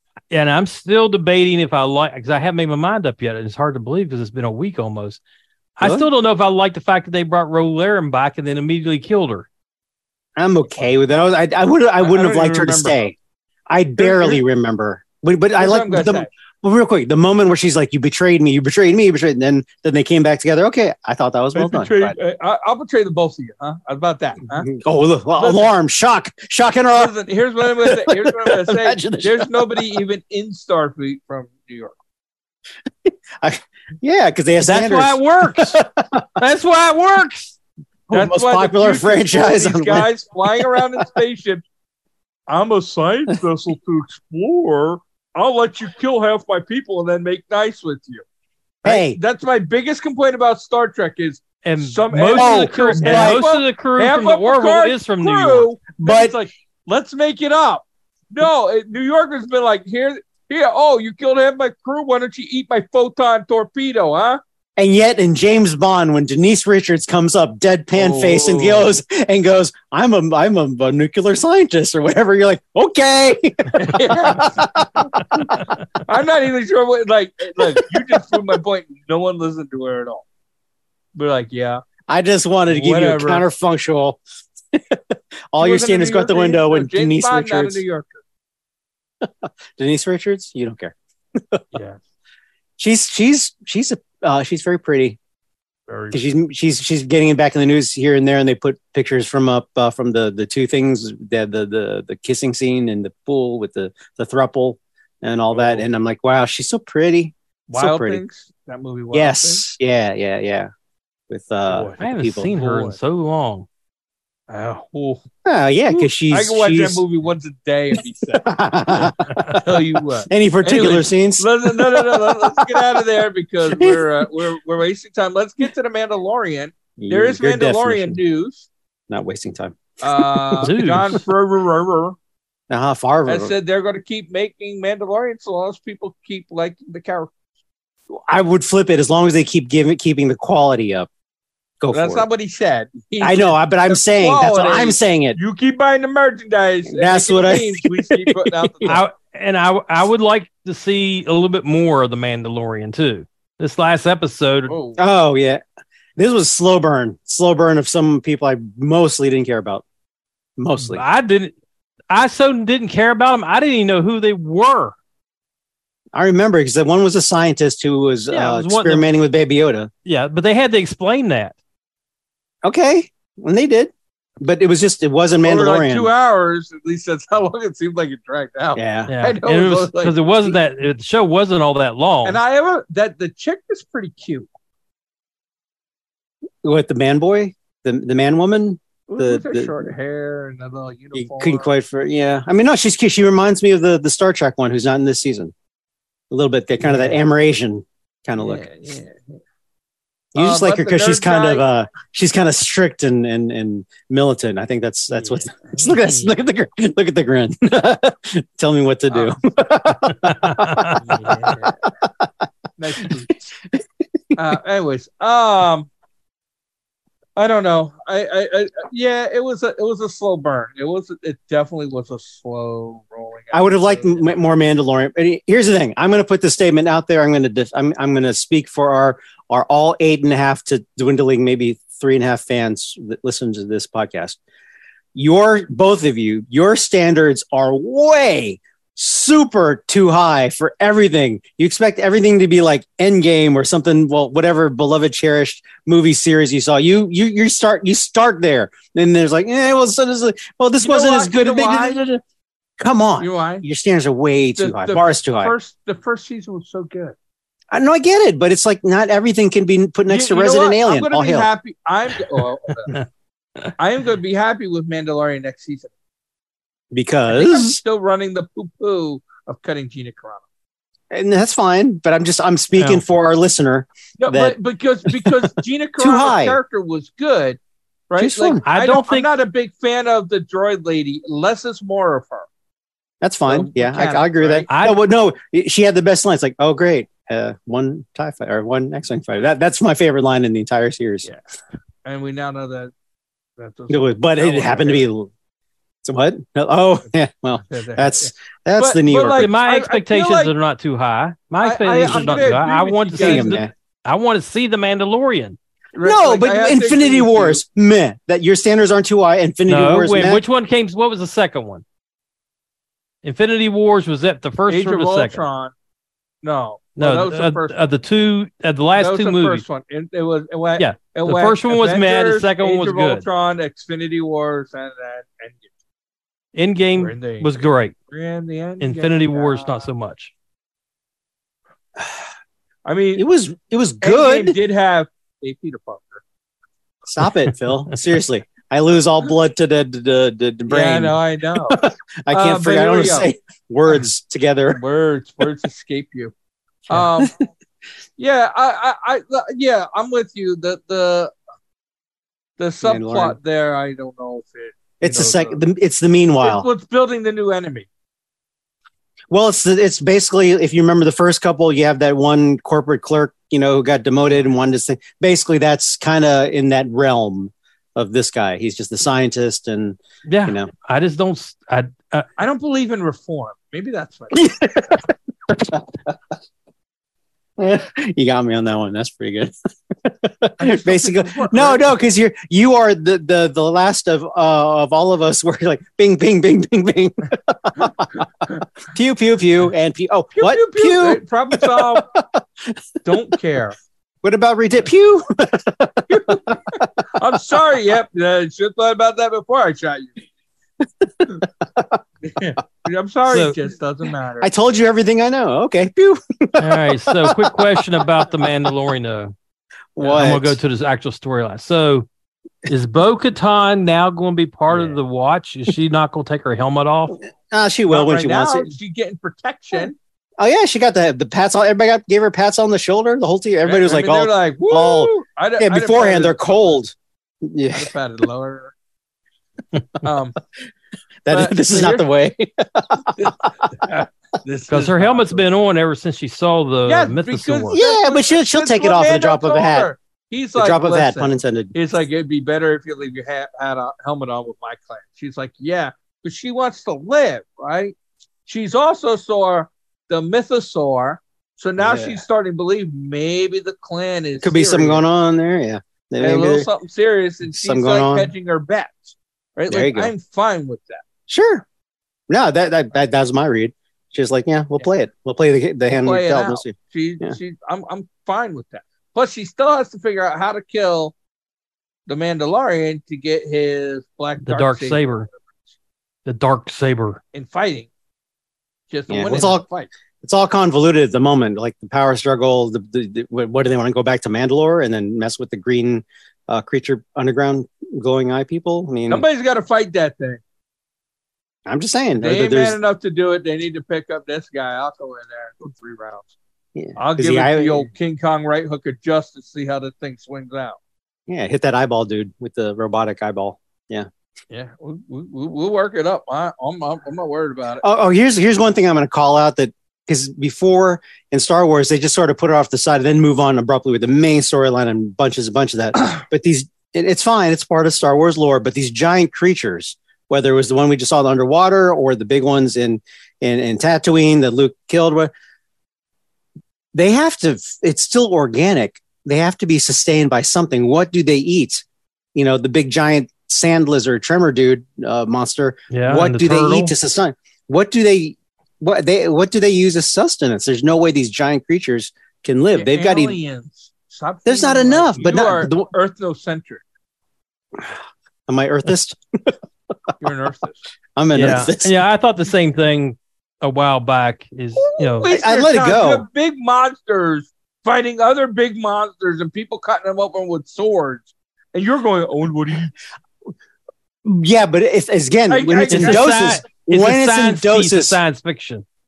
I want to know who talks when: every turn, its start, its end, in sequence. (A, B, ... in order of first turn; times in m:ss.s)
0:00.3-0:05.2 A
0:05.8-0:09.5 A
0:05.8-0:06.1 B
0:10.4-0:13.2 B
0:12.0-0:13.1 C
0:13.7-0:22.2 B
0:14.0-0:14.4 C
0:15.6-0:16.3 C
0:21.6-0:24.7 C
0:24.6-0:27.1 B
0:25.4-0:25.7 C
0:26.9-0:32.0 C
0:27.7-0:29.8 B
0:33.0-0:36.3 B
0:34.6-0:35.8 A
0:36.4-0:37.5 A
0:38.1-0:40.9 B
0:38.1-0:41.6 C
0:42.5-0:48.2 C
0:48.8-0:49.2 B
0:48.8-1:04.4 C
0:51.6-0:55.7 A
0:52.3-0:53.4 B
0:56.0-0:56.4 B
1:04.8-1:15.1 B
1:08.0-1:08.9 C
1:13.7-1:20.2 C
1:17.6-1:18.3 B
1:21.2-1:21.8 C
1:22.1-1:24.2 B
1:22.7-1:23.5 C
1:24.7-1:27.8 B
1:25.6-1:28.2 C
1:29.2-1:31.7 B
1:31.7-1:32.0 C
1:32.8-1:35.2 B
1:35.9-1:36.3 C
1:36.1-1:48.2 B
1:45.5-1:45.9 C
1:47.7-1:49.6 C
1:49.1-1:50.7 B
1:51.3-1:52.5 B
1:51.7-1:53.0 C
1:52.0-1:53.7 A
1:54.5-1:55.2 C
1:55.4-1:57.0 B
1:55.9-2:08.7 C
1:58.4-1:59.6 B
2:00.3-2:02.9 B
2:03.6-2:04.3 B
2:07.0-2:08.2 B
2:09.1-2:10.6 B
2:10.0-2:12.2 C
2:10.6-2:11.2 A
2:12.7-2:13.5 B
2:13.3-2:17.3 C
2:18.1-2:21.1 B
2:21.8-2:22.3 B
2:21.9-2:29.0 C
2:23.2-2:25.4 B
2:26.9-2:29.0 B
2:28.9-2:34.8 A
2:34.7-2:35.0 C
2:35.0-2:35.6 B
2:36.2-2:39.8 B
2:40.6-2:41.0 B
2:40.8-2:41.5 A
2:42.1-2:45.0 A
2:46.1-2:49.9 B
2:48.3-2:49.1 A
2:50.1-2:51.6 A
2:52.6-2:56.1 B
2:55.4-3:00.6 C
2:58.8-2:59.1 B
2:59.1-3:02.4 A
3:02.2-3:04.5 C
3:06.6-3:09.9 B
3:09.1-3:11.7 C
3:11.2-3:15.5 B
3:16.3-3:18.7 B
3:16.8-3:17.2 C
3:18.4-3:19.4 C
3:20.3-3:32.3 B
3:20.4-3:21.7 C
3:25.2-3:26.3 C
3:30.1-3:31.0 A
3:31.0-3:31.8 C
3:32.8-3:33.4 C
3:34.4-3:35.9 C
3:37.4-3:44.3 C
3:43.5-3:54.4 B
3:55.2-4:12.2 B
4:10.8-4:12.0 C
4:12.8-4:15.6 B
4:13.2-4:13.6 C
4:14.6-4:17.2 C
4:17.7-4:21.5 B
4:20.1-4:23.0 C
4:23.8-4:25.9 C
4:26.9-4:27.8 B
4:27.3-4:30.4 C
4:31.1-4:35.5 B
4:32.8-4:33.0 A
4:34.2-4:37.6 C
4:36.0-4:36.6 B
4:38.1-4:42.5 C
4:38.2-4:38.6 B
4:38.6-4:39.3 A
4:43.2-4:51.3 B
4:43.5-4:44.7 C
4:44.7-4:45.0 A
4:52.0-4:52.9 C
4:53.6-4:55.1 C
4:53.9-4:55.3 B
4:56.0-4:59.5 B
4:57.5-5:00.5 C
4:59.3-5:05.6 A
5:01.6-5:03.6 C
5:02.1-5:02.5 B
5:03.2-5:03.7 B
5:06.0-5:07.6 C
5:06.0-5:10.4 B
5:09.7-5:11.8 A
5:13.2-5:15.4 A
5:14.7-5:15.7 C
5:16.4-5:17.8 C
5:17.0-5:19.6 A
5:19.0-5:25.7 C
5:20.8-5:23.3 A
5:26.6-5:28.0 A
5:26.9-5:27.5 C
5:28.1-5:29.8 C
5:28.8-5:30.3 A
5:32.9-5:33.3 C
5:33.2-5:34.6 B
5:34.0-5:36.2 C
5:37.1-5:44.8 B
5:40.7-5:43.3 C
5:44.7-5:46.3 C
5:46.9-5:47.3 C
5:48.2-5:51.3 C
5:52.6-5:55.6 C
5:52.8-5:53.4 B
5:55.0-5:56.7 B
5:56.4-5:57.9 C
5:59.3-6:10.7 B
6:10.3-6:12.3 A
6:12.4-6:14.6 C
6:14.3-6:15.9 B
6:17.6-6:28.2 B
6:20.6-6:21.9 C
6:28.9-6:33.2 B
6:30.4-6:32.1 C
6:33.0-6:33.8 C
6:34.2-6:36.8 B
6:36.1-6:40.2 C
6:41.0-6:42.0 B
6:42.2-6:44.5 C
6:43.3-6:43.6 A
6:44.4-6:48.5 B
6:46.6-6:49.3 A
6:50.0-6:50.6 B
6:50.0-6:52.1 A
6:52.7-6:57.2 A
6:54.7-6:55.0 C
6:57.3-6:58.7 B
6:57.9-7:00.0 C
7:00.4-7:07.9 B
7:03.6-7:06.8 C
7:07.7-7:08.7 C
7:10.0-7:10.4 C
7:11.3-7:13.9 B
7:11.3-7:12.1 C
7:13.2-7:15.4 C
7:14.7-7:17.8 A
7:16.9-7:35.0 C
7:17.7-7:19.9 B
7:20.6-7:21.7 B
7:31.8-7:32.2 B
7:34.4-7:36.7 B
7:36.2-7:41.0 C
7:37.5-7:38.3 B
7:39.7-7:40.1 B
7:41.3-7:41.6 B
7:42.3-7:47.4 B
7:45.9-7:51.2 C
7:52.1-7:55.3 C
7:54.4-7:55.3 A
7:56.3-7:57.2 A
7:57.3-7:57.9 C
7:58.9-7:59.9 C
7:59.1-7:59.6 B
8:00.2-8:09.2 B
8:09.1-8:10.4 C
8:11.7-8:12.8 B
8:12.2-8:16.3 C
8:16.8-8:17.9 B
8:17.0-8:20.8 C
8:21.3-8:24.1 B
8:24.5-8:27.8 C
8:27.8-8:45.3 B
8:46.9-9:03.4 B
8:55.9-8:56.9 A
9:02.7-9:06.8 C
9:04.5-9:05.9 B
9:08.5-9:09.6 B
9:10.2-9:10.9 C
9:11.2-9:12.0 B
9:11.3-9:15.3 A
9:14.8-9:22.9 C
9:15.3-9:16.3 B
9:24.2-9:28.2 B
9:25.5-9:26.5 C
9:25.9-9:28.8 A